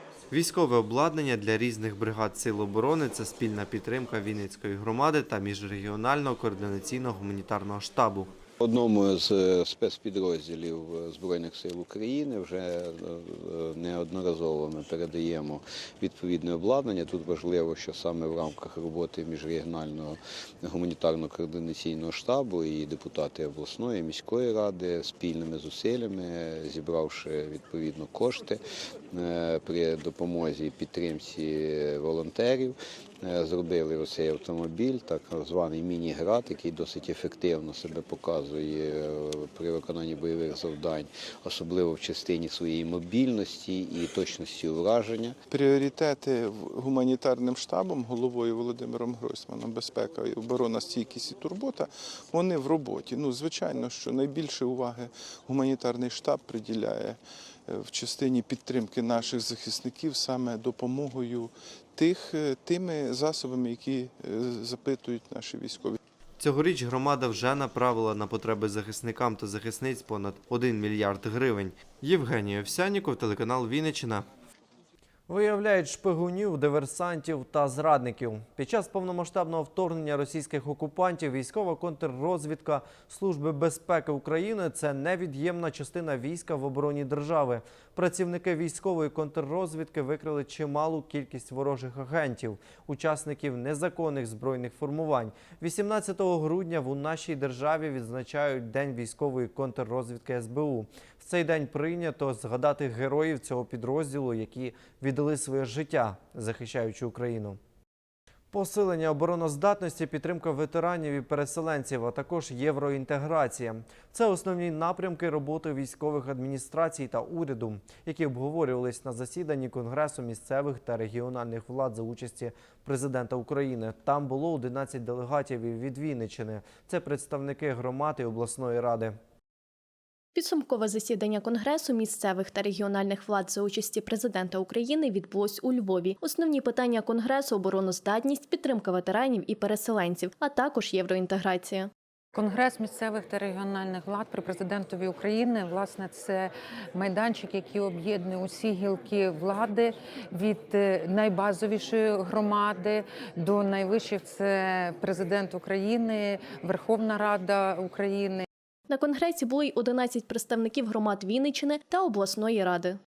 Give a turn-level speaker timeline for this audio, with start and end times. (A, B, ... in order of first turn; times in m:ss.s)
0:00.3-0:08.3 A
0:08.6-0:45.4 B
0:45.5-1:06.0 C
1:06.4-1:14.3 A
1:15.3-1:47.6 A
1:48.5-2:09.2 A
2:10.4-2:21.9 D
2:22.3-2:26.4 E
2:27.0-2:38.4 E
2:38.9-2:43.0 D